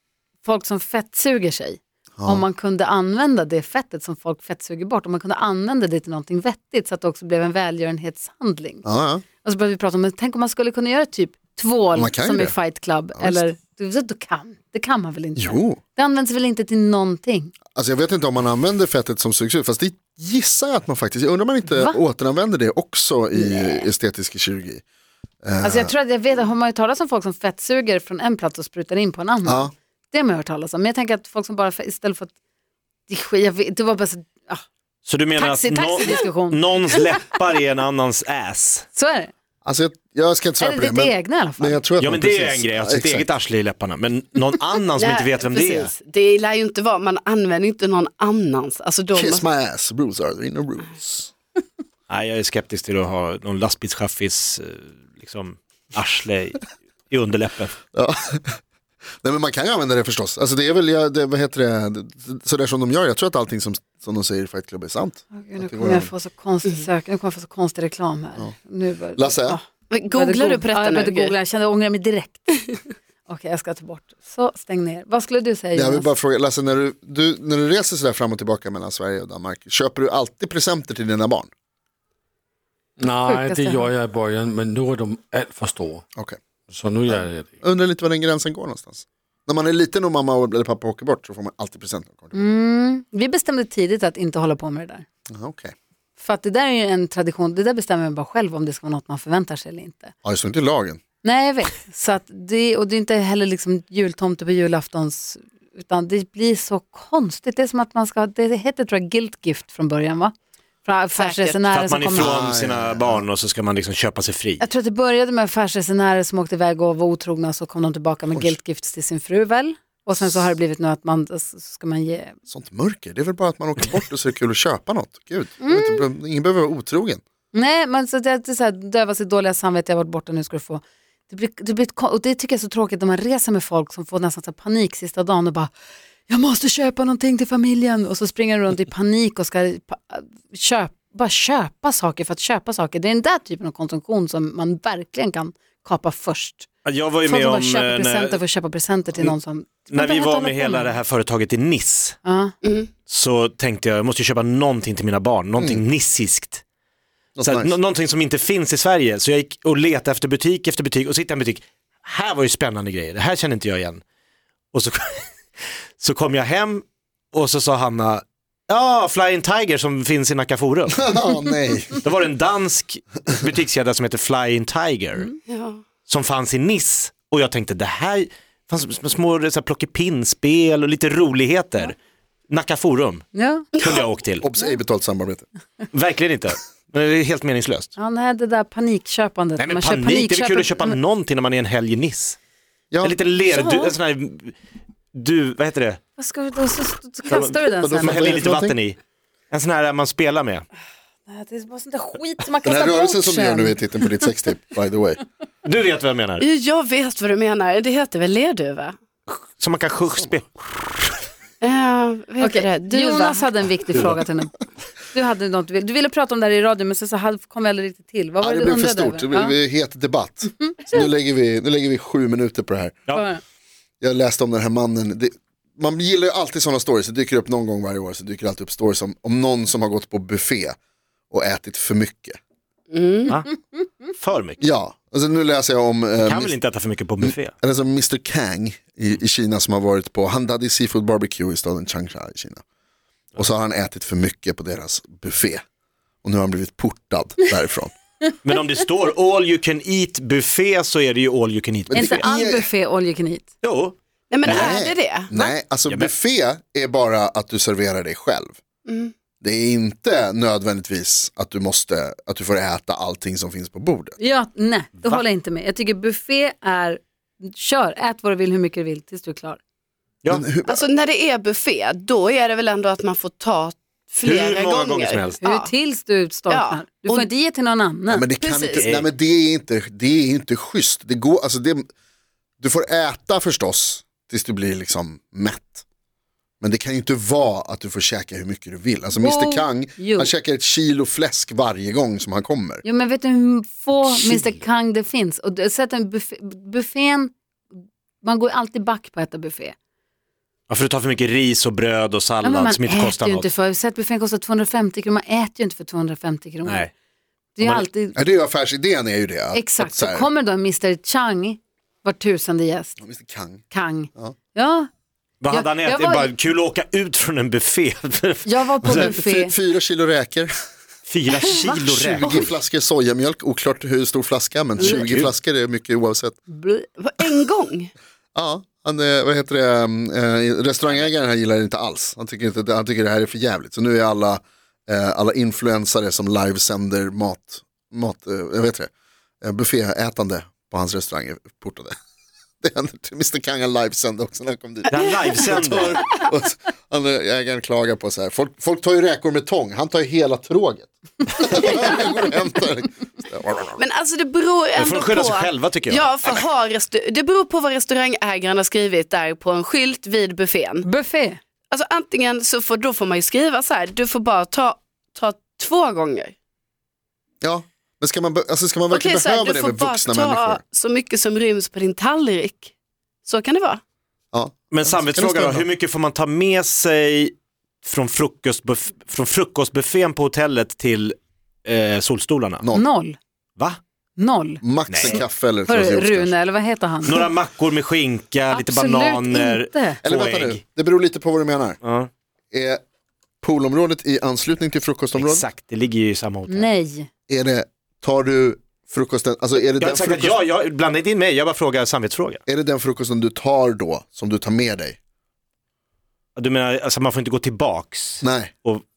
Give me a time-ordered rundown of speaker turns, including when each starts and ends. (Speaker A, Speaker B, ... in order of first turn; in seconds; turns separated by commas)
Speaker A: 0.4-8.8, Speaker B: 2.2-2.4, Speaker B: 8.8-9.2, Speaker A: 9.4-17.5, Speaker B: 11.9-12.6, Speaker B: 13.2-13.4, Speaker B: 15.3-15.8, Speaker B: 17.7-24.8, Speaker A: 21.6-22.0, Speaker A: 23.3-23.9, Speaker B: 25.4-25.9, Speaker A: 25.6-32.3, Speaker B: 29.4-29.7, Speaker A: 33.1-34.6, Speaker C: 35.0-38.9, Speaker A: 35.4-36.6, Speaker A: 38.9-39.3, Speaker B: 39.6-43.3, Speaker A: 40.6-41.8, Speaker C: 42.0-45.9, Speaker D: 45.0-49.5, Speaker B: 49.1-51.3, Speaker C: 52.1-57.8, Speaker B: 57.9-58.6, Speaker B: 59.2-66.1, Speaker A: 65.3-76.1, Speaker B: 69.1-69.6, Speaker D: 69.9-71.3, Speaker B: 75.7-81.5, Speaker E: 83.0-86.0, Speaker A: 83.2-83.9, Speaker E: 86.7-87.6, Speaker B: 87.1-92.5, Speaker A: 92.3-95.0, Speaker B: 95.3-95.7, Speaker A: 96.2-100.1, Speaker B: 100.2-101.0, Speaker A: 101.2-112.3, Speaker D: 111.2-111.6, Speaker C: 111.7-114.6, Speaker B: 112.1-113.2, Speaker A: 114.6-122.3, Speaker B: 122.5-127.2, Speaker A: 125.6-126.0, Speaker A: 127.5-135.7, Speaker A: 136.3-146.7, Speaker C: 146.8-148.4, Speaker A: 147.2-151.0, Speaker C: 149.9-152.2, Speaker A: 152.2-152.5, Speaker D: 152.6-152.9, Speaker C: 153.1-156.6, Speaker B: 155.6-155.8, Speaker B: 157.3-157.7, Speaker C: 157.4-164.0, Speaker C: 164.7-165.3, Speaker C: 166.0-171.0, Speaker B: 170.9-172.0, Speaker C: 172.0-175.3, Speaker D: 175.5-175.8, Speaker C: 176.1-181.9, Speaker C: 182.5-183.3, Speaker A: 183.3-183.7, Speaker D: 183.8-184.0, Speaker C: 183.8-184.5, Speaker B: 184.4-185.4, Speaker C: 185.9-187.9, Speaker A: 187.9-191.0, Speaker C: 189.6-192.4, Speaker B: 192.9-193.2, Speaker C: 193.0-194.5, Speaker A: 193.5-193.9, Speaker C: 195.1-196.0, Speaker A: 196.2-198.5, Speaker C: 197.3-199.0, Speaker B: 197.8-198.8, Speaker C: 199.5-200.7, Speaker A: 201.3-203.8, Speaker B: 202.6-205.2, Speaker C: 205.6-206.5, Speaker D: 206.4-208.9, Speaker C: 209.3-211.2, Speaker D: 211.6-213.5, Speaker A: 212.4-214.6, Speaker A: 215.1-219.6, Speaker B: 218.4-223.0, Speaker A: 220.6-221.0, Speaker A: 223.1-223.4, Speaker B: 224.0-230.8, Speaker B: 231.3-232.4, Speaker D: 232.9-233.3, Speaker C: 234.1-234.6, Speaker B: 234.6-236.6, Speaker C: 236.2-237.5, Speaker B: 237.2-242.6, Speaker B: 243.3-245.6, Speaker B: 246.2-247.9, Speaker C: 248.4-252.3, Speaker B: 251.9-252.7, Speaker A: 251.9-253.5, Speaker C: 253.6-254.7, Speaker D: 254.3-255.5, Speaker B: 254.4-258.6, Speaker C: 255.9-256.1, Speaker D: 258.9-259.1, Speaker B: 259.4-264.2, Speaker A: 264.2-269.6, Speaker B: 270.3-270.9, Speaker D: 270.6-275.7, Speaker C: 274.2-275.4, Speaker A: 275.4-278.2, Speaker D: 276.5-277.3, Speaker B: 278.1-281.9, Speaker D: 278.4-278.9, Speaker C: 278.8-279.1, Speaker B: 282.6-285.8, Speaker B: 286.6-292.8, Speaker A: 289.1-290.3, Speaker A: 292.8-297.3, Speaker C: 294.0-294.5, Speaker A: 298.2-299.8, Speaker C: 300.7-303.5, Speaker A: 302.4-306.9, Speaker C: 306.6-306.9, Speaker A: 307.6-308.1, Speaker C: 307.6-307.8, Speaker B: 308.1-310.3, Speaker A: 309.5-313.0, Speaker B: 313.0-313.6, Speaker A: 313.7-314.9, Speaker C: 315.4-319.2, Speaker A: 315.5-316.3, Speaker A: 318.4-319.5, Speaker B: 318.8-320.5, Speaker C: 321.1-322.4, Speaker A: 321.4-322.5, Speaker B: 321.6-326.4, Speaker C: 324.8-325.3, Speaker A: 326.5-326.8, Speaker D: 327.0-327.9, Speaker B: 328.3-338.9, Speaker C: 330.9-331.1, Speaker B: 339.4-341.9, Speaker B: 342.6-353.8, Speaker C: 344.9-346.0, Speaker D: 345.0-346.0, Speaker D: 353.8-360.9, Speaker C: 354.8-356.4, Speaker A: 360.8-361.4, Speaker D: 361.7-366.3, Speaker B: 367.4-370.6, Speaker D: 368.9-372.7, Speaker D: 373.2-373.8, Speaker B: 374.3-375.7, Speaker C: 374.7-382.6, Speaker A: 382.7-383.2, Speaker A: 384.2-387.3, Speaker B: 384.6-386.4, Speaker C: 384.9-385.2, Speaker C: 387.0-390.6, Speaker A: 388.5-390.0, Speaker B: 390.0-391.8, Speaker C: 391.8-392.1, Speaker B: 392.5-392.8, Speaker B: 393.4-395.5, Speaker C: 395.2-396.7, Speaker A: 396.5-397.1, Speaker B: 397.3-400.4, Speaker C: 399.8-402.4, Speaker B: 402.5-405.0, Speaker C: 406.4-408.8, Speaker B: 408.2-408.5